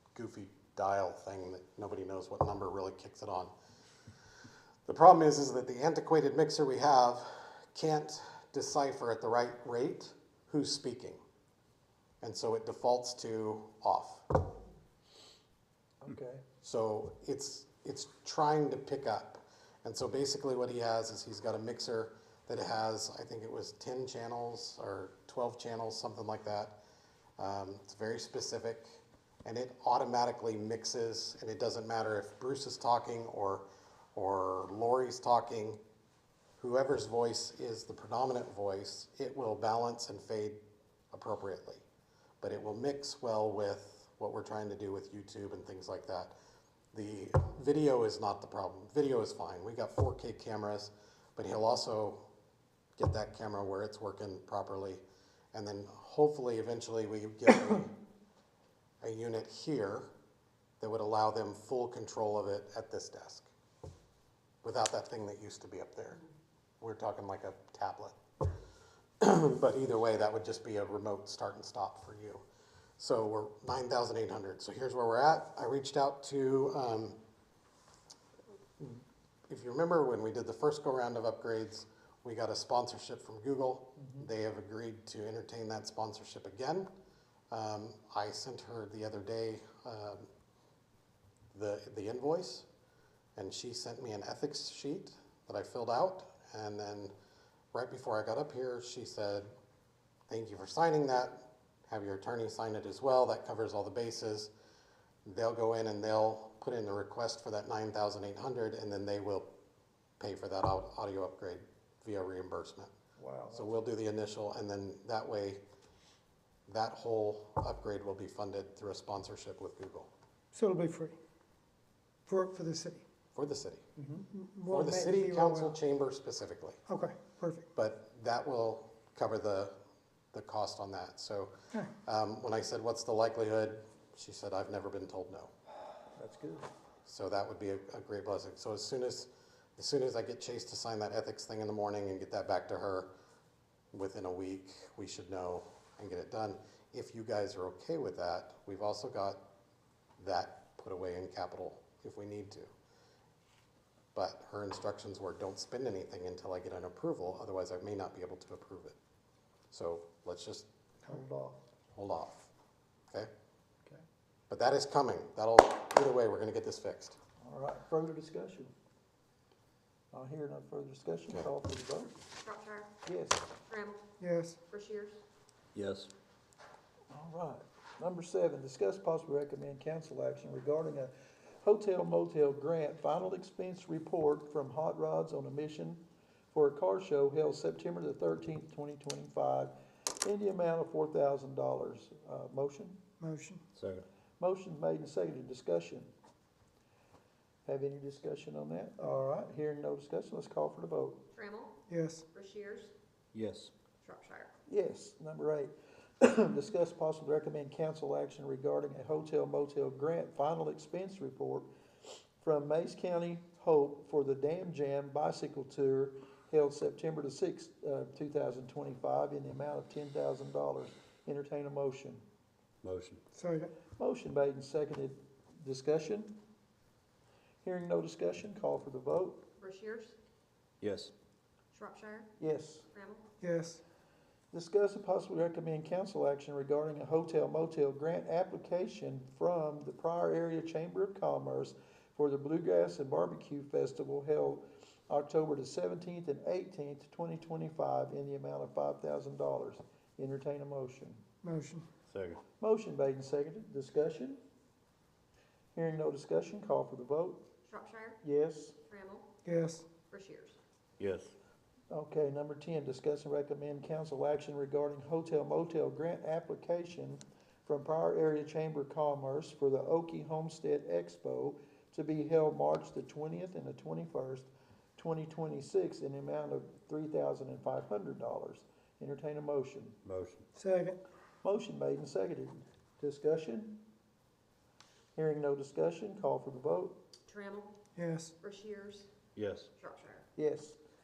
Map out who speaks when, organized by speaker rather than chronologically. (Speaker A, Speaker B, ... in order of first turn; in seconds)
Speaker A: 0.1-3.5, 4.9-11.2, 12.2-14.3, 16.6-26.8, 27.4-35.8, 36.6-41.8, 42.4-46.4, 46.9-52.2, 53.0-57.9, 59.0-60.1, 60.8-63.5, 64.6-66.2, 66.8-68.2, 69.2-72.4, 73.0-77.2, 78.8-86.9, 87.5-90.3, 91.5-92.7, 93.4-97.1, 97.7-99.5, 100.3-104.5, 105.2-109.5, 110.2-112.9, 113.5-115.6, 116.7-120.1, 123.3-123.9, 124.7-126.8, 127.8-129.7, 130.3-135.5, 137.1-143.1, 143.9-149.4, 150.2-152.7, 154.2-159.0, 159.7-160.7, 161.9-162.5, 164.5-167.2
Speaker B: 16.0-16.4, 113.2-113.7, 136.2-136.7, 161.1-161.6, 167.4-168.7, 170.1-172.2, 173.1-173.4, 177.1-193.0, 194.4-196.1, 197.7-201.2, 204.7-211.7, 212.4-222.2, 224.0-226.3, 227.6-229.4, 232.4-232.9, 234.5-251.2, 252.6-254.4, 255.7-257.4, 258.2-258.8, 261.9-280.0, 281.4-283.8, 285.2-287.0, 290.4-290.8
Speaker C: 120.5-121.2, 122.3-123.0, 124.3-125.8, 126.9-127.7, 174.2-174.6, 193.2-193.6, 201.9-202.2, 223.3-223.7, 233.4-233.8, 251.4-251.8, 259.4-259.9, 280.6-281.0, 288.0-288.3
Speaker D: 172.4-172.9, 173.7-174.0, 174.7-175.2, 201.3-201.8, 202.3-202.9, 204.0-204.5, 229.6-230.2, 231.7-232.3, 232.9-233.2, 257.7-258.2, 258.9-259.3, 260.1-260.6, 287.3-287.7, 288.4-289.1, 289.8-290.2
Speaker E: 175.7-176.1, 193.8-194.1, 203.3-203.7, 222.8-223.2, 230.8-231.1, 252.1-252.4, 261.0-261.3, 280.1-280.4, 289.4-289.7